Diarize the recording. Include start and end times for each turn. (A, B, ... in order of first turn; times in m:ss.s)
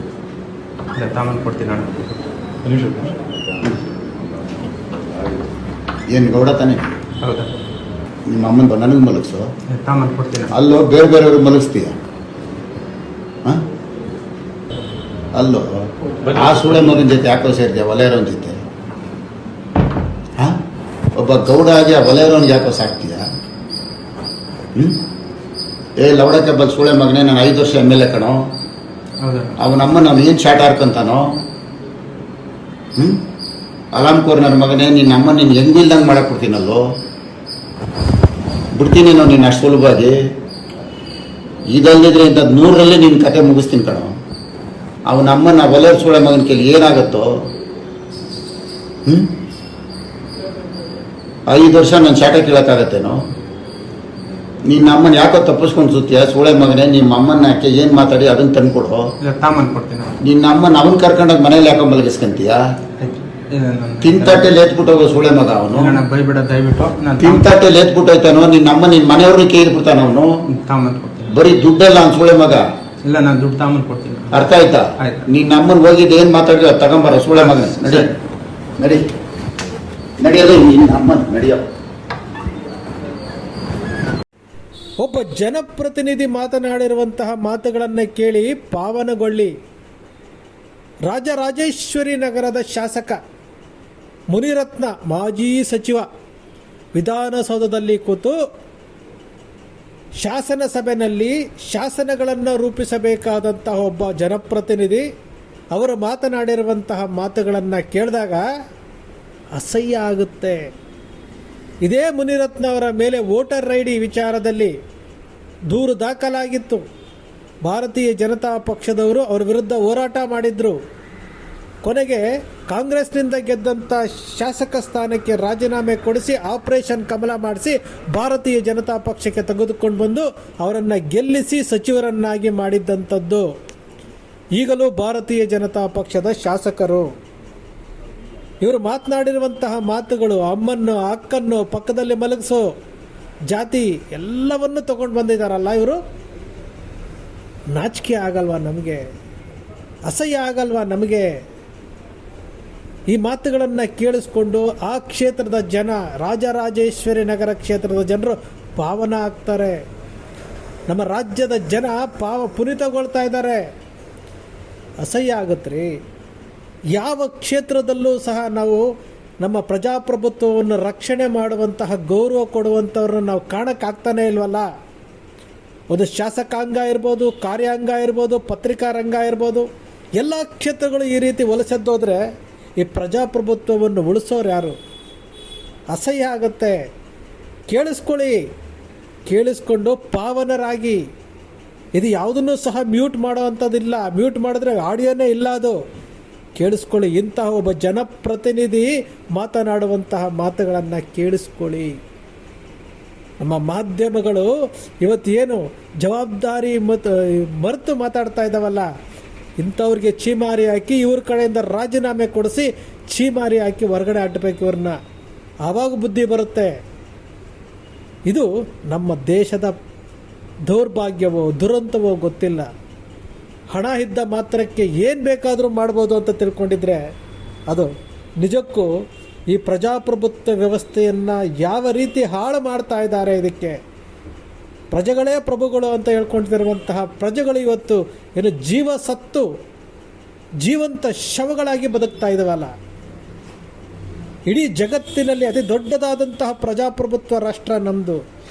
0:01.0-0:03.1 A
0:06.1-0:06.9 B
0:07.2-0:07.5 A
0:08.3-0:09.5 B
0:09.7-0:10.5 A
0:10.5-0:11.9 B
0:15.3-0:15.7 B
0:16.2-0:18.6 B
0:21.1-0:23.2 B
0:24.7-0:25.0 B
0:26.0-0:28.4 B
0:29.2-0:29.6 A
0:29.6-0:31.2 B
0:33.0-0:33.2 B
0:33.9-0:36.8 B
0:38.7-0:40.1 B
0:41.7-0:44.1 B
0:45.1-0:47.3 B
0:49.0-0:49.3 B
0:51.5-0:53.2 B
0:54.6-0:59.0 B
0:59.2-1:00.2 A
1:00.2-1:02.6 B
1:03.0-1:04.5 A
1:04.0-1:06.0 B
1:05.7-1:07.5 A
1:07.2-1:10.3 B
1:10.5-1:11.4 A
1:11.3-1:12.6 B
1:13.0-1:15.3 A
1:14.3-1:18.1 B
1:17.7-1:18.1 A
1:18.8-1:19.0 B
1:20.2-1:21.6 B
1:25.0-1:29.5 C
1:31.0-1:33.2 C
1:34.3-1:36.0 C
1:36.9-1:38.4 C
1:40.2-1:45.0 C
1:45.7-1:48.4 C
1:49.6-1:50.7 C
1:51.8-1:54.7 C
1:55.7-1:56.8 C
1:57.6-2:00.8 C
2:01.8-2:13.4 C
2:14.6-2:17.1 C
2:18.6-2:22.7 C
2:23.5-2:26.0 C
2:27.7-2:29.0 C
2:30.0-2:31.3 C
2:33.1-2:39.8 C
2:40.9-2:43.6 C
2:45.0-2:45.9 C
2:46.9-2:48.8 C
2:49.4-2:54.7 C
2:55.9-2:59.7 C
3:00.2-3:02.2 C
3:02.8-3:04.8 C
3:05.9-3:06.8 C
3:07.7-3:08.4 C
3:09.3-3:11.0 C
3:12.0-3:15.8 C
3:16.6-3:22.0 C
3:23.4-3:24.5 C
3:25.0-3:28.9 C
3:29.6-3:35.0 C
3:35.6-3:36.7 C
3:38.3-3:39.8 C
3:40.7-3:42.7 C
3:43.7-3:47.0 C
3:47.7-3:48.9 C
3:49.5-3:53.8 C
3:54.9-3:59.5 C
4:00.6-4:02.7 C
4:04.5-4:08.2 C